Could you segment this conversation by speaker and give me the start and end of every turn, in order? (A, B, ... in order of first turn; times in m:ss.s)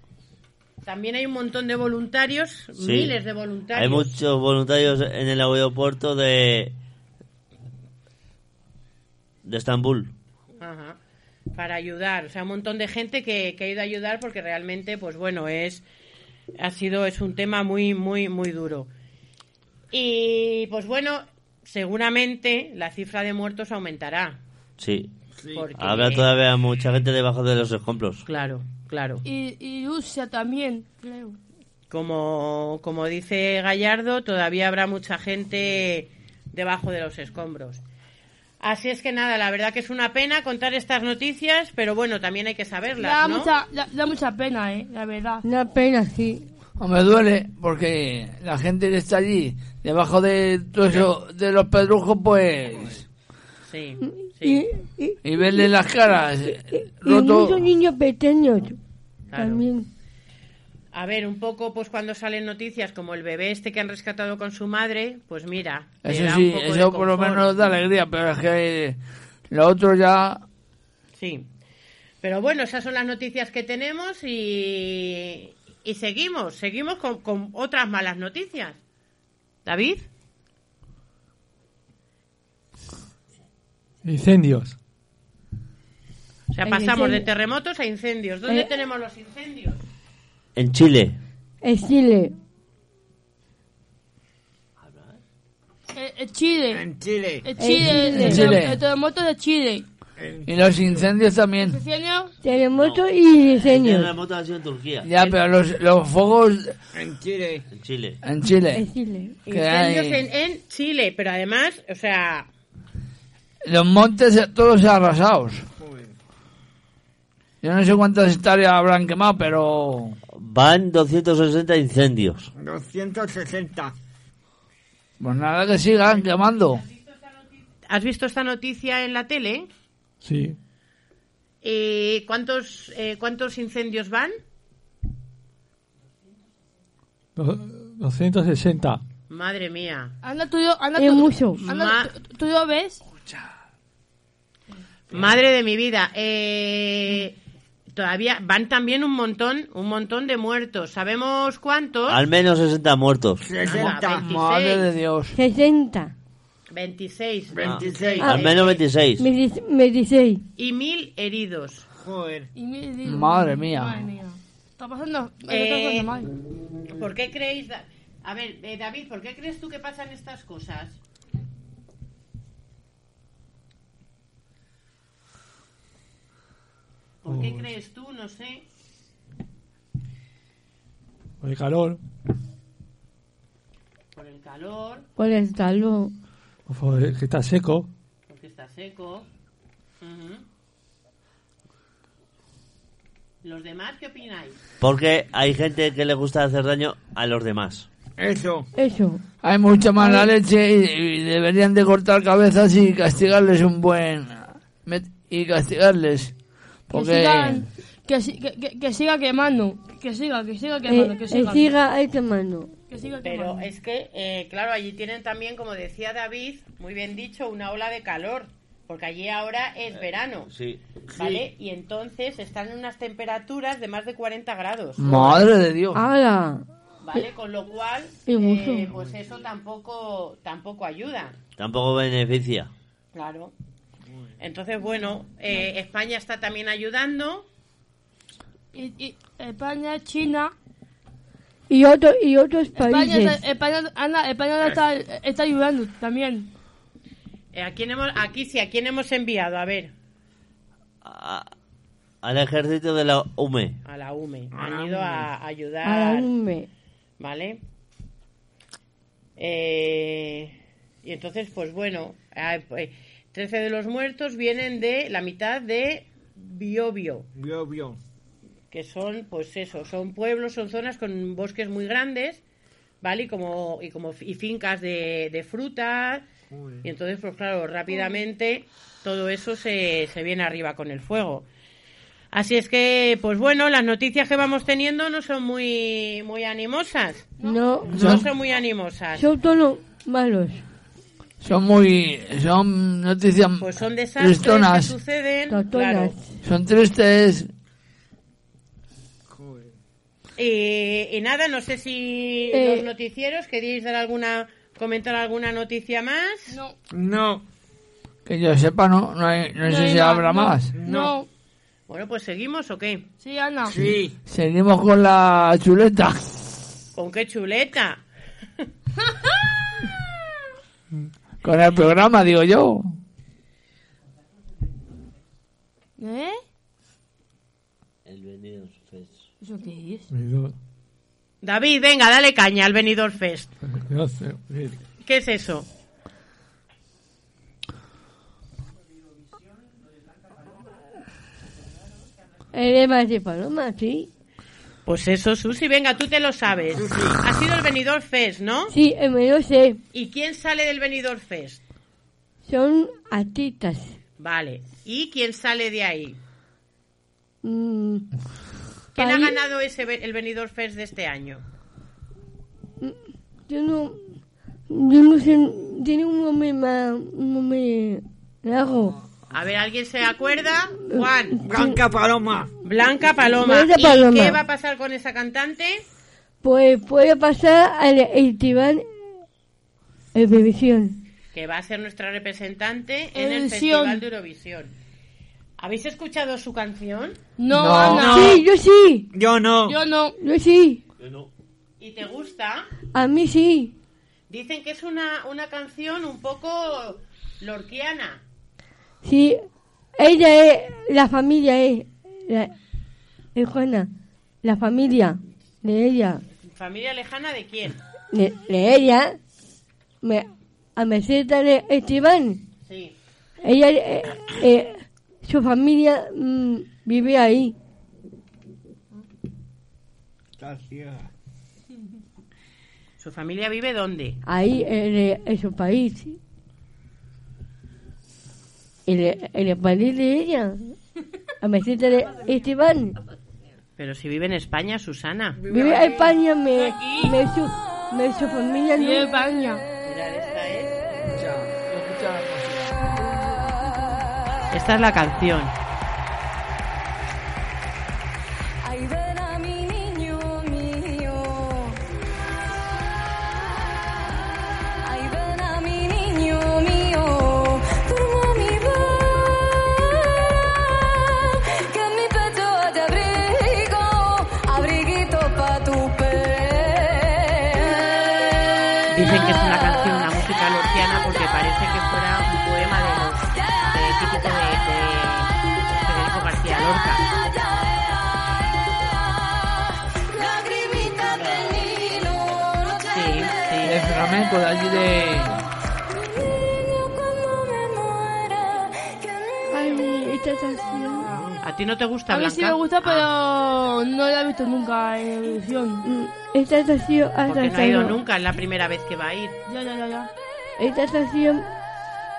0:00.8-0:04.2 A
0:02.8-0:03.1 B
0:03.7-0:06.8 B
0:09.4-0:10.1 B
0:10.6-0:11.0 A
0:11.6-0:15.8 A
0:16.6-0:18.9 A
0:19.9-0:24.4 A
0:24.8-0:25.1 B
0:25.4-0:25.7 C
0:25.5-0:26.3 A
0:25.8-0:28.3 B
0:28.3-0:29.2 A
0:29.2-0:31.4 D
0:31.9-0:37.8 A
0:38.6-0:43.5 A
0:43.0-0:45.4 D
0:45.4-0:46.5 E
0:46.8-0:53.0 F
0:53.7-0:54.6 A
0:54.0-0:55.7 E
0:55.2-0:57.7 F
0:56.5-0:58.8 E
0:59.3-0:59.7 A
0:59.3-0:59.9 E
1:00.9-1:07.6 A
1:06.0-1:09.0 F
1:09.5-1:10.4 F
1:11.2-1:11.5 A
1:12.2-1:18.8 A
1:19.6-1:20.1 A
1:24.0-1:24.8 G
1:26.5-1:29.8 A
1:26.6-1:27.3 E
1:30.6-1:31.2 B
1:31.6-1:32.3 E
1:34.8-1:35.2 B
1:35.9-1:36.8 D
1:36.7-1:37.5 C
1:37.4-1:39.9 D
1:37.6-1:38.6 E
1:38.1-1:38.8 F
1:40.2-1:41.0 C
1:40.5-1:41.8 F
1:41.6-1:42.3 D
1:42.4-1:44.1 E
1:42.8-1:45.1 B
1:45.0-1:46.8 F
1:46.9-1:47.6 C
1:47.7-1:48.2 B
1:48.2-1:48.8 F
1:48.7-1:49.4 E
1:49.5-1:52.5 A
1:49.5-1:50.2 F
1:53.6-1:55.6 F
1:55.8-1:56.1 C
1:57.6-2:00.2 F
2:00.4-2:02.5 B
2:02.6-2:04.0 C
2:05.2-2:06.8 F
2:06.0-2:09.7 A
2:10.2-2:10.6 G
2:11.6-2:14.4 A
2:17.4-2:19.0 G
2:19.3-2:20.2 A
2:20.2-2:23.0 D
2:21.0-2:21.6 E
2:21.6-2:22.1 A
2:25.1-2:27.4 A
2:27.9-2:32.2 A
2:32.1-2:33.5 B
2:33.4-2:34.3 C
2:33.6-2:34.9 A
2:34.2-2:35.4 F
2:35.4-2:36.1 E
2:36.7-2:38.8 A
2:37.5-2:38.3 C
2:37.6-2:39.3 B
2:39.2-2:40.4 E
2:40.6-2:41.9 A
2:42.0-2:42.5 C
2:42.6-2:46.3 D
2:43.0-2:44.1 F
2:45.5-2:46.1 A
2:47.0-2:51.0 A
2:57.2-2:58.6 A
2:57.3-2:57.7 G
3:01.4-3:02.0 G
3:04.2-3:05.0 A
3:05.2-3:06.1 E
3:06.7-3:07.9 G
3:08.3-3:09.3 A
3:10.0-3:10.4 A
3:13.4-3:14.6 A
3:14.8-3:17.9 B
3:18.2-3:18.7 C
3:18.8-3:19.2 E
3:19.4-3:26.3 F
3:20.0-3:20.3 E
3:26.9-3:27.6 F
3:26.9-3:31.7 D
3:30.9-3:32.7 E
3:32.9-3:33.7 D
3:33.2-3:40.5 A
3:40.5-3:40.8 B
3:41.1-3:41.5 C
3:41.2-3:45.5 A
3:45.0-3:46.0 F
3:46.0-3:46.6 E
3:47.0-3:51.4 A
3:48.3-3:48.9 E
3:51.6-3:52.7 B
3:53.2-3:53.5 A
3:54.4-3:57.5 A
3:58.7-4:00.5 D
4:01.7-4:03.4 E
4:02.8-4:06.5 D
4:07.5-4:09.9 A
4:11.0-4:11.5 B
4:12.2-4:13.8 B
4:13.8-4:16.3 A
4:14.5-4:15.3 C
4:15.8-4:16.7 E
4:17.2-4:17.6 A
4:19.4-4:27.3 A
4:27.4-4:28.0 C
4:28.7-4:32.4 A
4:33.0-4:36.3 A
4:36.5-4:36.8 C
4:36.8-4:41.5 A
4:42.3-4:47.3 A
4:47.4-4:47.8 D
4:47.4-4:48.0 E
4:47.9-4:49.3 A
4:48.0-4:48.2 F
4:48.0-4:48.2 C
4:49.2-4:50.6 E
4:51.4-4:54.9 F
4:53.6-4:56.2 A
4:55.5-4:56.2 E
4:56.4-4:57.5 F
4:59.3-4:59.7 C
5:00.4-5:06.6 A
5:02.5-5:02.9 E
5:06.5-5:06.8 D
5:06.9-5:07.4 C
5:08.3-5:10.7 F
5:09.6-5:11.3 D
5:10.7-5:11.2 C
5:11.9-5:13.1 A
5:13.2-5:13.8 D
5:13.6-5:14.2 C
5:14.3-5:16.4 F
5:17.0-5:18.0 A
5:21.4-5:23.0 F
5:26.0-5:26.4 D
5:28.0-5:29.2 B
5:29.4-5:30.1 D
5:30.1-5:30.6 G
5:31.4-5:33.5 A
5:33.8-5:34.8 G
5:35.0-5:35.7 A
5:42.5-5:44.1 E
5:44.9-5:48.7 A
5:46.7-5:47.2 C
5:48.7-5:49.8 E
5:49.9-5:51.6 A
5:52.4-5:54.0 E
5:54.2-5:56.2 A
5:57.4-5:58.1 E
5:59.0-6:01.4 A
5:59.0-5:59.4 E
6:02.8-6:04.0 E
6:04.7-6:09.0 E
6:09.3-6:11.4 A
6:10.9-6:11.8 E
6:11.4-6:12.5 C
6:12.6-6:15.8 A
6:13.4-6:14.4 E
6:16.4-6:18.9 E
6:20.2-6:21.0 E
6:21.3-6:24.7 A
6:23.2-6:24.0 D
6:25.6-6:27.2 A
6:27.4-6:28.3 D
6:27.5-6:28.2 F
6:27.7-6:28.4 C
6:28.1-6:29.1 E
6:29.1-6:29.8 C
6:29.7-6:30.2 D
6:30.2-6:30.8 E
6:31.0-6:31.3 B
6:31.8-6:32.7 A
6:32.9-6:33.7 E
6:34.3-6:38.2 A
6:39.0-6:39.4 E
6:40.0-6:42.5 E
6:43.4-6:43.9 E
6:44.4-6:46.2 E
6:46.4-6:47.8 A
6:48.1-6:49.2 E
6:50.0-6:52.4 E
6:52.7-6:53.0 A
6:53.4-6:57.6 E
7:00.4-7:01.1 C
7:03.0-7:04.2 A
7:04.3-7:06.2 E
7:08.9-7:10.7 E
7:11.4-7:13.0 E
7:12.0-7:12.5 D
7:13.8-7:15.4 A
7:15.4-7:16.2 C
7:15.5-7:19.1 E
7:16.5-7:17.2 D
7:18.8-7:19.6 D
7:19.8-7:20.8 A
7:21.2-7:22.7 F
7:24.5-7:25.6 A
7:28.6-7:31.8 H
7:34.8-7:48.1 H
7:48.9-7:57.0 A
7:57.1-7:58.9 H
8:00.2-8:03.3 H
8:01.1-8:01.4 B
8:02.9-8:03.8 A
8:03.6-8:05.4 F
8:07.1-8:09.0 H
8:09.5-8:11.1 E
8:11.0-8:11.3 D
8:11.4-8:13.1 A
8:12.1-8:15.8 D
8:15.8-8:18.0 E
8:17.2-8:19.4 A
8:19.5-8:20.1 D
8:20.6-8:21.5 E